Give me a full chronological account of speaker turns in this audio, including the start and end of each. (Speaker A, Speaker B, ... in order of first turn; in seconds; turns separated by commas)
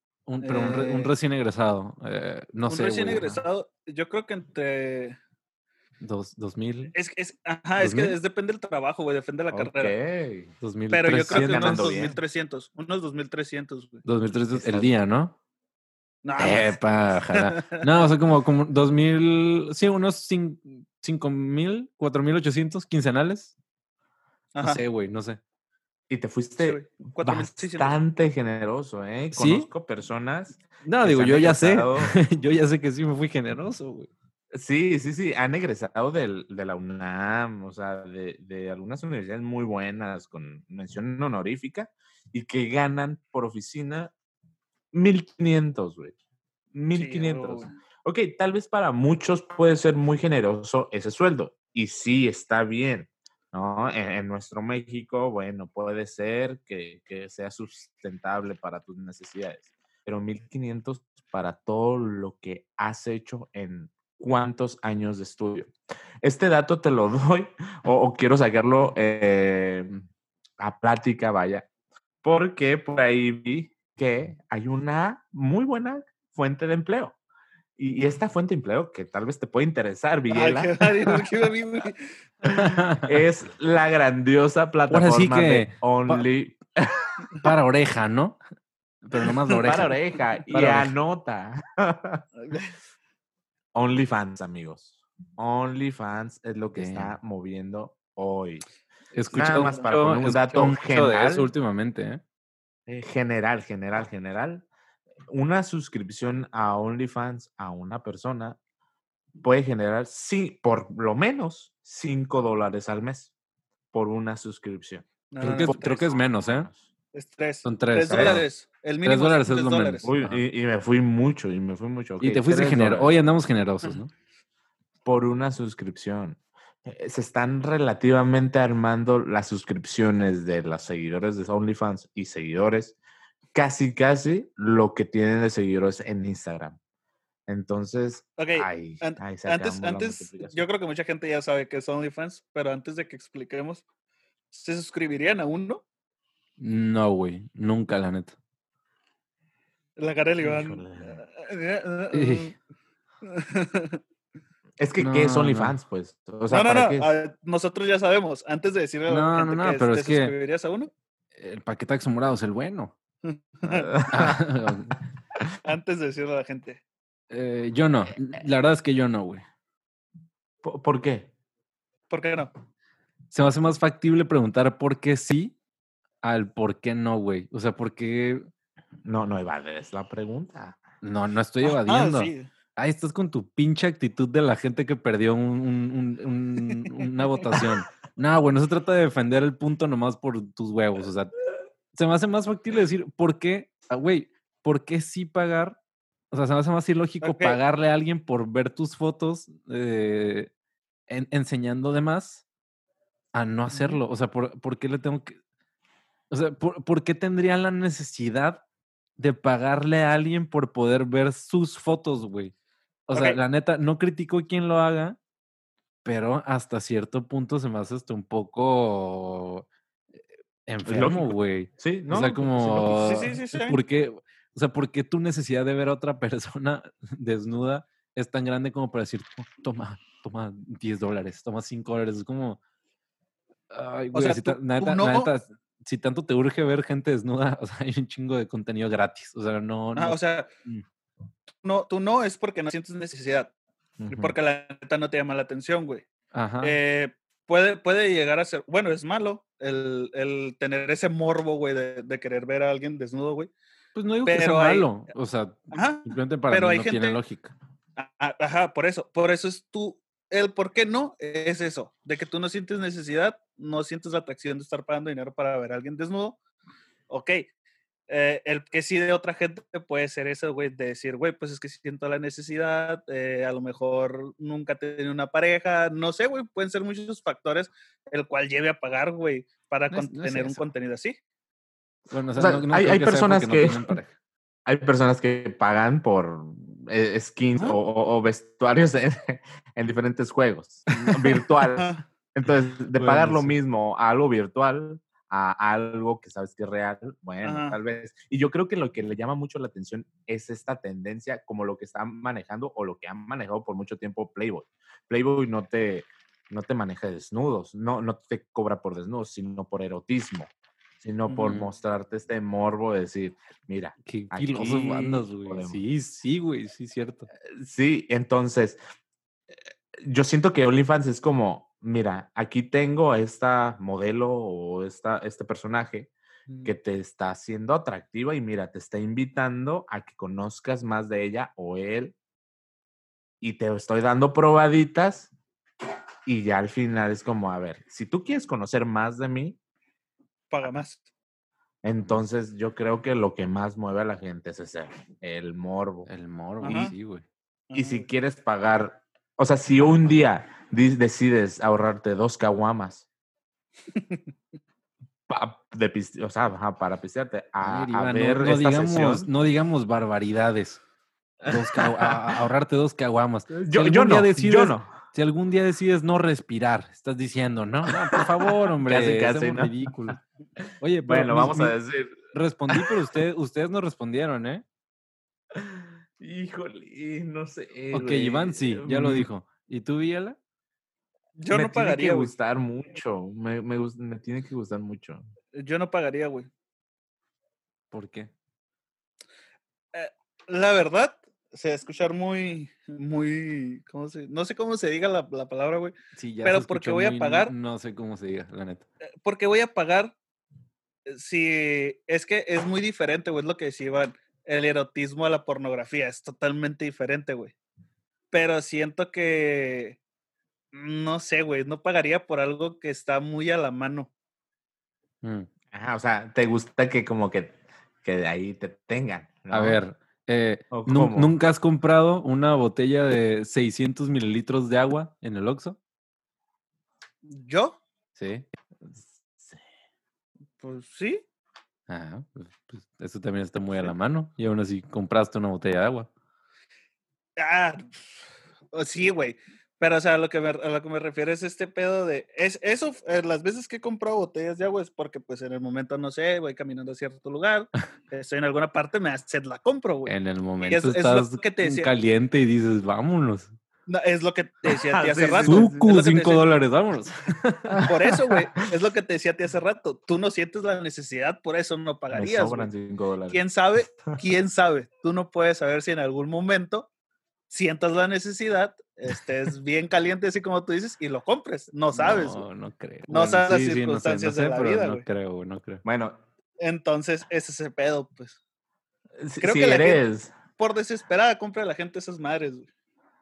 Speaker A: 0.3-3.4, Speaker B: 0.4-1.1, Speaker B: 2.7-5.2, Speaker A: 6.0-6.9, Speaker B: 6.9-9.9, Speaker A: 7.8-8.2, Speaker C: 9.5-10.5, Speaker A: 10.6-12.1, Speaker B: 10.9-14.0, Speaker C: 11.3-12.2, Speaker A: 14.1-15.4, Speaker C: 14.5-14.9, Speaker B: 16.2-17.8, Speaker A: 16.4-23.5, Speaker B: 24.6-24.8, Speaker A: 24.6-25.4, Speaker C: 26.1-32.2, Speaker B: 26.6-27.9, Speaker A: 29.3-29.7, Speaker A: 30.8-34.1, Speaker C: 34.5-44.1, Speaker C: 44.9-46.2, Speaker C: 46.7-70.0, Speaker B: 46.9-47.7, Speaker C: 70.6-71.7, Speaker C: 72.2-77.2, Speaker C: 77.8-81.3, Speaker B: 80.3-82.1, Speaker C: 82.4-87.1, Speaker A: 82.5-83.1, Speaker A: 84.9-86.2, Speaker A: 87.4-88.4, Speaker A: 89.0-90.0, Speaker C: 89.6-92.2, Speaker A: 90.5-90.9, Speaker B: 92.4-92.8, Speaker C: 93.7-98.6, Speaker A: 96.7-97.2, Speaker A: 99.1-102.2, Speaker C: 99.3-101.5, Speaker C: 102.9-104.7, Speaker C: 105.3-108.6, Speaker C: 109.4-113.3, Speaker C: 113.9-116.8, Speaker B: 115.3-116.0, Speaker A: 115.4-116.7, Speaker B: 117.1-120.1, Speaker A: 117.6-118.5, Speaker C: 118.1-118.4, Speaker A: 119.0-120.4, Speaker C: 120.0-123.1, Speaker A: 122.2-124.1, Speaker C: 125.0-133.0, Speaker C: 133.5-136.8, Speaker C: 137.5-140.7, Speaker B: 138.4-143.8, Speaker B: 144.5-145.8, Speaker A: 146.6-148.4, Speaker B: 150.0-152.5, Speaker C: 150.4-151.2, Speaker A: 152.1-152.5, Speaker B: 153.2-154.0, Speaker C: 154.8-157.1, Speaker A: 155.0-155.7, Speaker B: 156.5-160.9, Speaker A: 159.1-160.3, Speaker A: 161.3-162.9, Speaker B: 163.2-164.0, Speaker C: 163.7-164.4, Speaker A: 164.1-164.9, Speaker B: 165.6-166.8, Speaker A: 167.3-169.4, Speaker C: 170.6-171.3, Speaker B: 172.1-172.5, Speaker A: 173.3-175.6, Speaker A: 176.2-178.5, Speaker C: 179.1-180.8, Speaker A: 181.0-191.3, Speaker B: 181.6-182.5, Speaker A: 191.9-195.8, Speaker A: 196.3-200.5, Speaker B: 197.2-197.6, Speaker A: 201.1-202.4, Speaker A: 203.3-205.4, Speaker B: 203.7-204.0, Speaker A: 206.3-208.6, Speaker A: 209.2-212.5, Speaker A: 213.1-215.2, Speaker A: 216.0-219.7, Speaker A: 220.7-232.6, Speaker C: 220.9-223.1, Speaker B: 222.8-223.8, Speaker A: 233.7-240.8, Speaker B: 234.1-235.3, Speaker B: 239.9-240.5, Speaker B: 241.6-243.5, Speaker C: 244.0-244.4, Speaker B: 244.1-246.1, Speaker A: 246.3-246.8, Speaker B: 246.6-253.5, Speaker A: 253.9-257.5, Speaker B: 254.2-254.9, Speaker B: 255.7-257.2, Speaker B: 258.0-266.4, Speaker B: 267.1-267.5, Speaker B: 268.1-281.1, Speaker A: 279.9-280.6, Speaker A: 282.1-284.1, Speaker C: 282.4-283.9, Speaker C: 284.7-315.8, Speaker B: 291.7-292.0, Speaker A: 293.0-293.6, Speaker B: 297.4-297.8, Speaker A: 311.3-311.7, Speaker A: 314.1-317.3, Speaker C: 317.6-318.8, Speaker C: 320.0-326.1, Speaker B: 326.5-326.7, Speaker C: 326.6-332.1, Speaker C: 333.4-335.3, Speaker C: 336.3-339.6, Speaker B: 340.5-341.0, Speaker C: 341.8-346.1, Speaker A: 346.1-347.2, Speaker B: 346.6-346.9, Speaker B: 347.7-348.1, Speaker C: 347.7-353.1, Speaker B: 353.9-354.2, Speaker C: 355.3-359.3, Speaker A: 357.6-360.8, Speaker C: 361.4-362.1, Speaker A: 361.4-370.2, Speaker C: 363.5-364.9, Speaker C: 368.8-369.8, Speaker A: 370.8-371.8, Speaker C: 371.1-372.2, Speaker A: 372.3-374.6, Speaker C: 375.5-379.3, Speaker A: 377.9-380.4, Speaker B: 381.4-382.3, Speaker C: 381.5-385.2, Speaker B: 385.6-386.5, Speaker A: 387.9-388.3, Speaker B: 389.9-397.5, Speaker A: 396.2-398.9, Speaker B: 399.2-400.1, Speaker B: 401.1-407.5, Speaker B: 408.3-410.0, Speaker B: 410.7-414.1, Speaker A: 415.2-415.5, Speaker C: 415.7-419.8, Speaker A: 419.5-425.8, Speaker C: 420.7-421.3, Speaker B: 427.2-427.8, Speaker A: 428.2-428.5, Speaker C: 428.9-429.6, Speaker B: 430.6-431.2, Speaker A: 431.9-436.1, Speaker B: 437.4-438.0, Speaker B: 438.7-451.9, Speaker A: 450.1-453.6, Speaker B: 453.9-456.6, Speaker C: 454.7-455.9, Speaker A: 455.4-457.9, Speaker C: 457.7-458.4, Speaker B: 457.9-462.7, Speaker C: 462.1-463.4, Speaker B: 463.3-466.9, Speaker B: 467.5-472.4, Speaker A: 471.9-475.8, Speaker B: 473.1-475.0, Speaker C: 475.9-476.2, Speaker B: 476.6-478.4, Speaker C: 479.2-480.4, Speaker B: 479.4-480.0, Speaker B: 480.6-482.7